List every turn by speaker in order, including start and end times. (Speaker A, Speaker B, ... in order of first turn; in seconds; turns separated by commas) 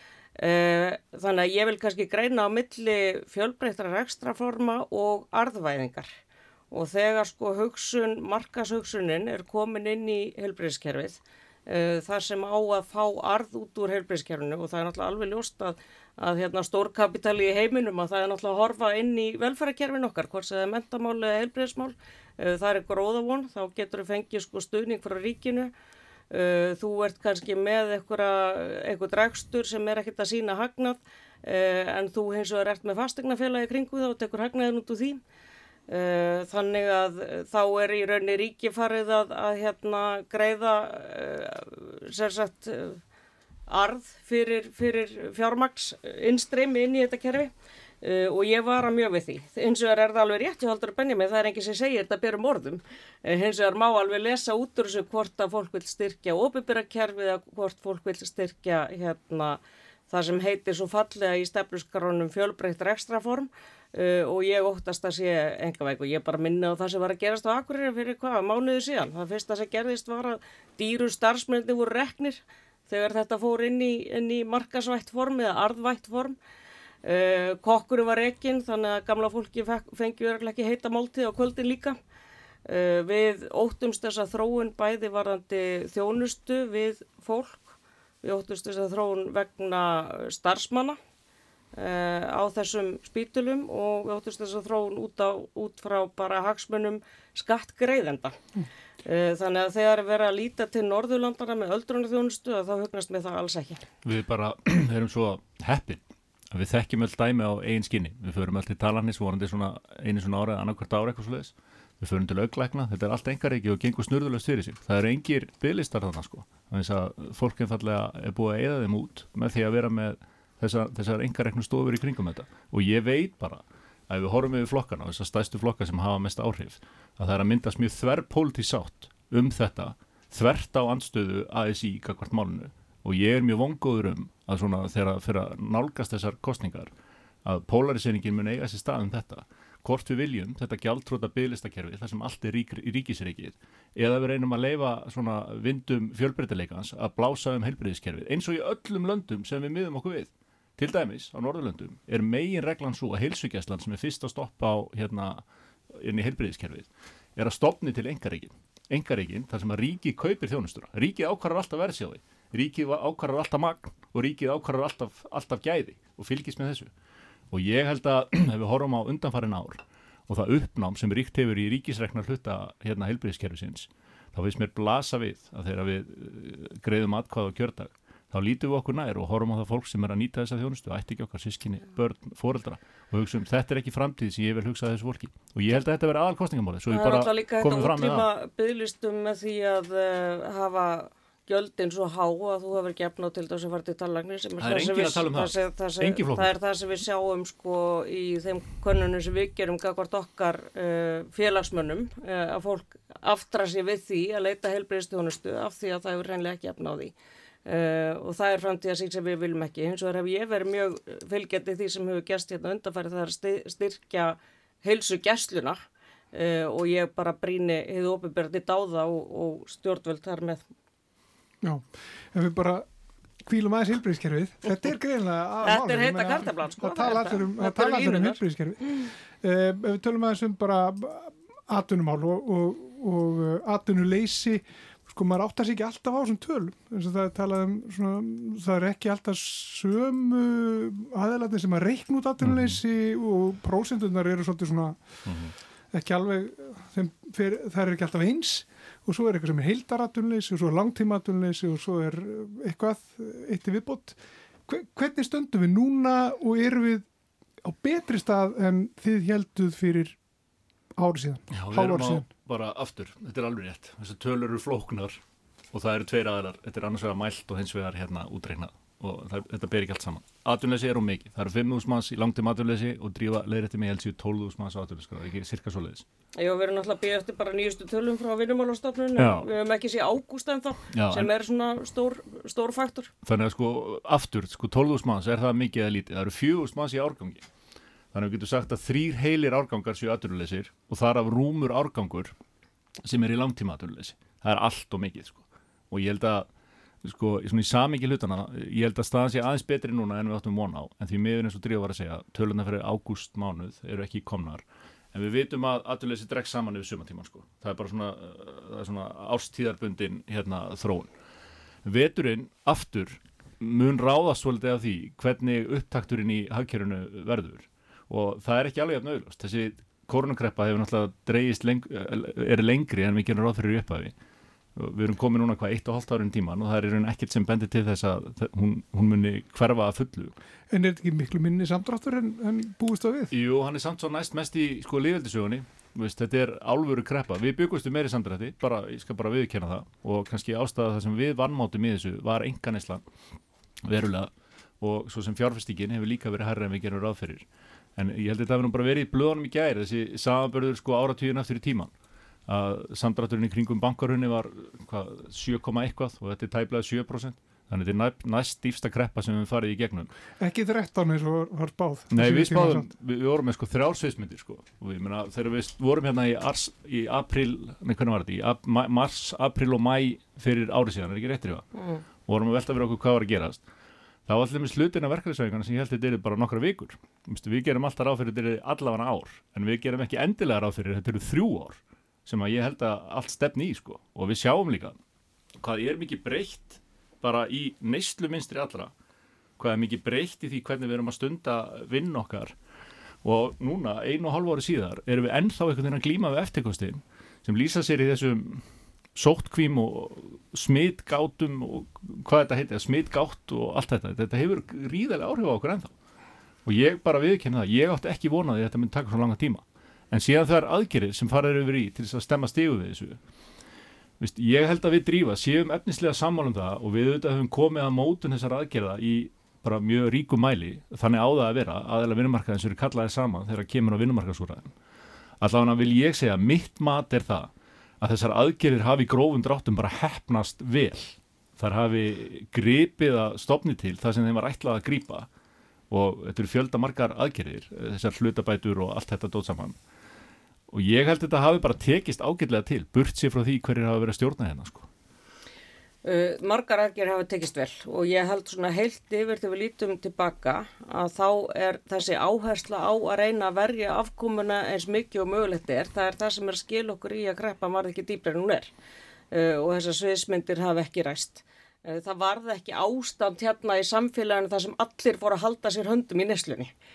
Speaker A: 0.4-6.1, Speaker A: 6.7-25.7, Speaker A: 26.3-35.2, Speaker A: 35.9-43.0, Speaker A: 43.7-47.5, Speaker A: 48.0-59.6, Speaker A: 60.1-76.4, Speaker A: 77.0-82.0, Speaker A: 82.7-91.0, Speaker A: 91.7-98.4, Speaker A: 99.0-103.9, Speaker B: 104.0-136.9, Speaker B: 137.4-155.4, Speaker B: 155.9-166.9, Speaker B: 167.5-188.3, Speaker A: 186.9-207.1, Speaker B: 194.6-196.5, Speaker A: 207.7-215.8, Speaker A: 216.3-220.6, Speaker C: 221.6-222.9, Speaker C: 223.4-228.8, Speaker A: 225.6-228.4, Speaker C: 229.4-245.0, Speaker B: 242.4-242.8, Speaker B: 245.3-245.5, Speaker C: 245.9-257.1, Speaker C: 257.6-260.2, Speaker C: 261.0-262.3, Speaker B: 261.5-265.2, Speaker B: 265.7-276.1, Speaker A: 276.4-283.1, Speaker B: 279.2-279.5, Speaker B: 280.9-281.3, Speaker B: 283.3-287.5, Speaker B: 288.1-292.3, Speaker B: 293.1-296.5, Speaker B: 297.0-311.1, Speaker B: 311.9-324.1, Speaker B: 324.8-330.3, Speaker C: 330.7-333.3, Speaker B: 333.3-343.0, Speaker B: 343.9-347.5, Speaker B: 348.0-351.9, Speaker B: 352.5-360.1, Speaker C: 360.4-362.9, Speaker B: 362.1-371.7, Speaker B: 372.3-373.6, Speaker B: 374.3-385.0, Speaker B: 385.6-388.9, Speaker B: 389.6-392.6, Speaker B: 393.2-398.6, Speaker B: 399.1-405.9, Speaker B: 406.7-413.2, Speaker B: 414.2-424.7, Speaker B: 425.4-435.3, Speaker B: 435.9-439.8, Speaker B: 440.7-444.9, Speaker A: 446.0-458.7, Speaker A: 459.3-466.7